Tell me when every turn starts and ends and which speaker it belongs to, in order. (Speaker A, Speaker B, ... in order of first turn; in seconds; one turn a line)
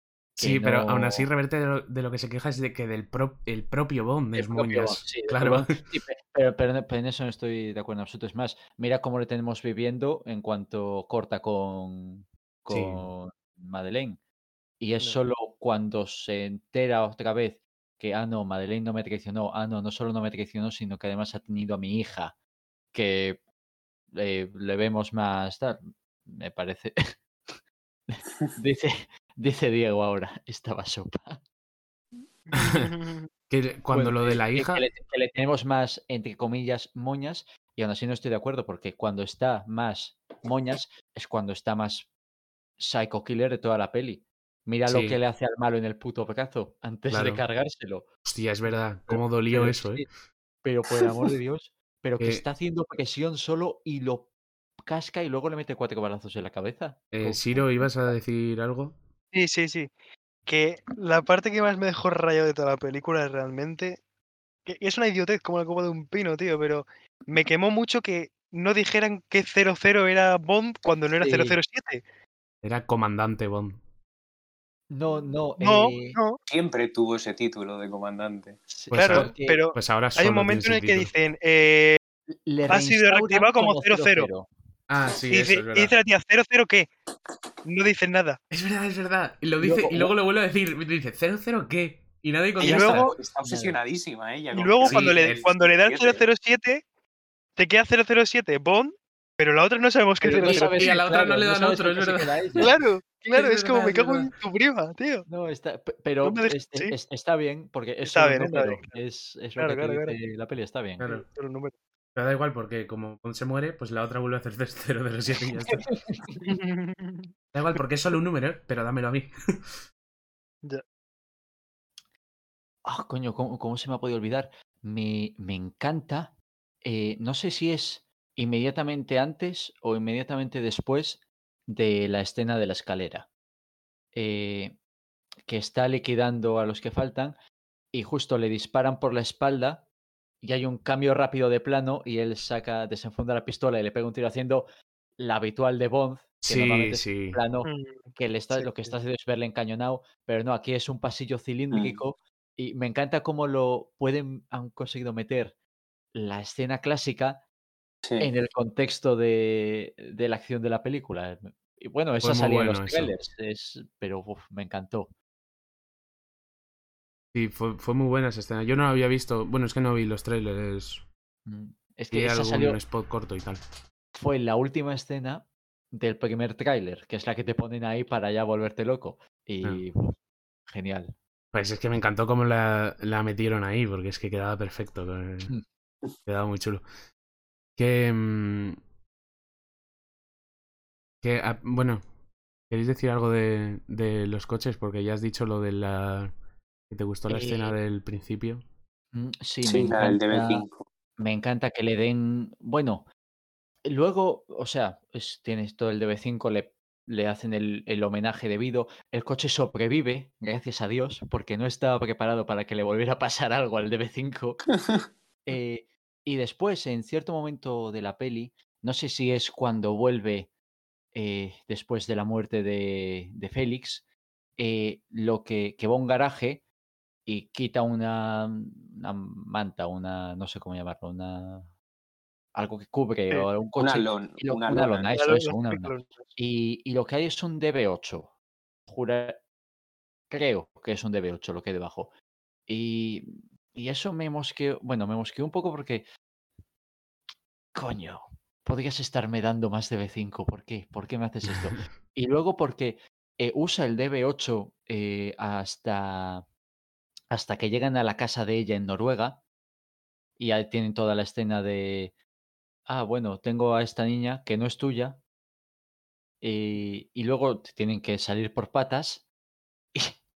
Speaker A: 0.4-1.3
Speaker B: 0.4-5.8
Speaker A: 4.3-14.2
Speaker B: 12.7-13.1
Speaker A: 14.8-22.4
Speaker A: 22.9-23.4
Speaker A: 24.1-31.4
Speaker C: 32.5-33.3
Speaker B: 32.5-32.9
Speaker B: 33.5-34.9
Speaker A: 33.9-42.1
Speaker A: 42.8-48.1
Speaker B: 44.9-45.2
Speaker B: 47.1-47.4
Speaker B: 48.2-50.0
Speaker A: 49.1-50.1
Speaker A: 50.6-54.3
Speaker A: 54.9-57.6
Speaker B: 57.1-59.0
Speaker C: 59.3-59.9
Speaker C: 60.5-64.0
Speaker C: 64.7-72.0
Speaker A: 71.2-71.6
Speaker B: 72.6-73.8
Speaker A: 74.9-76.2
Speaker C: 75.6-76.4
Speaker D: 76.5-78.6
Speaker A: 78.7-79.6
Speaker B: 78.9-81.1
Speaker C: 78.9-82.0
Speaker A: 82.3-84.5
Speaker C: 82.7-84.3
Speaker B: 84.9-85.9
Speaker C: 85.3-86.9
Speaker C: 87.6-88.4
Speaker B: 88.5-93.1
Speaker A: 89.6-90.1
Speaker C: 92.6-93.1
Speaker D: 92.6-96.2
Speaker A: 93.4-93.8
Speaker C: 94.5-96.8
Speaker B: 94.8-95.5
Speaker C: 97.6-100.9
Speaker A: 100.2-102.7
Speaker B: 100.3-102.6
Speaker C: 102.6-105.2
Speaker B: 103.3-104.3
Speaker A: 105.3-111.1
Speaker C: 106.2-106.9
Speaker C: 108.0-109.0
Speaker C: 109.5-110.2
Speaker B: 111.0-111.2
Speaker C: 111.0-111.8
Speaker B: 112.2-115.9
Speaker A: 115.6-116.2
Speaker C: 116.4-117.8
Speaker B: 117.5-119.7
Speaker A: 122.8-133.3
Speaker A: 134.1-134.8
Speaker A: 135.5-137.4
Speaker A: 137.9-139.8
Speaker A: 140.4-155.6
Speaker B: 146.4-147.4
Speaker C: 147.6-148.9
Speaker D: 151.7-152.0
Speaker A: 156.1-157.4
Speaker A: 158.2-165.1
Speaker B: 162.2-163.1
Speaker B: 167.3-171.0
Speaker A: 171.4-172.8
Speaker B: 172.1-173.6
Speaker A: 174.2-181.2
Speaker B: 181.5-185.5
Speaker B: 186.2-186.8
Speaker B: 187.8-188.8
Speaker B: 191.2-192.0
Speaker B: 192.7-196.3
Speaker B: 196.9-198.6
Speaker A: 197.3-197.8
Speaker A: 199.1-200.6
Speaker D: 199.6-200.8
Speaker A: 201.2-203.1
Speaker A: 203.8-214.7
Speaker A: 215.4-220.5
Speaker A: 221.1-224.1
Speaker A: 224.6-226.6
Speaker A: 227.2-231.7
Speaker A: 232.5-238.3
Speaker D: 233.8-235.1
Speaker C: 235.2-236.3
Speaker A: 238.9-239.4
Speaker A: 240.3-242.1
Speaker A: 242.7-246.1
Speaker A: 247.7-256.4
Speaker A: 257.3-259.4
Speaker A: 260.4-262.1
Speaker A: 262.9-265.2
Speaker A: 266.4-269.3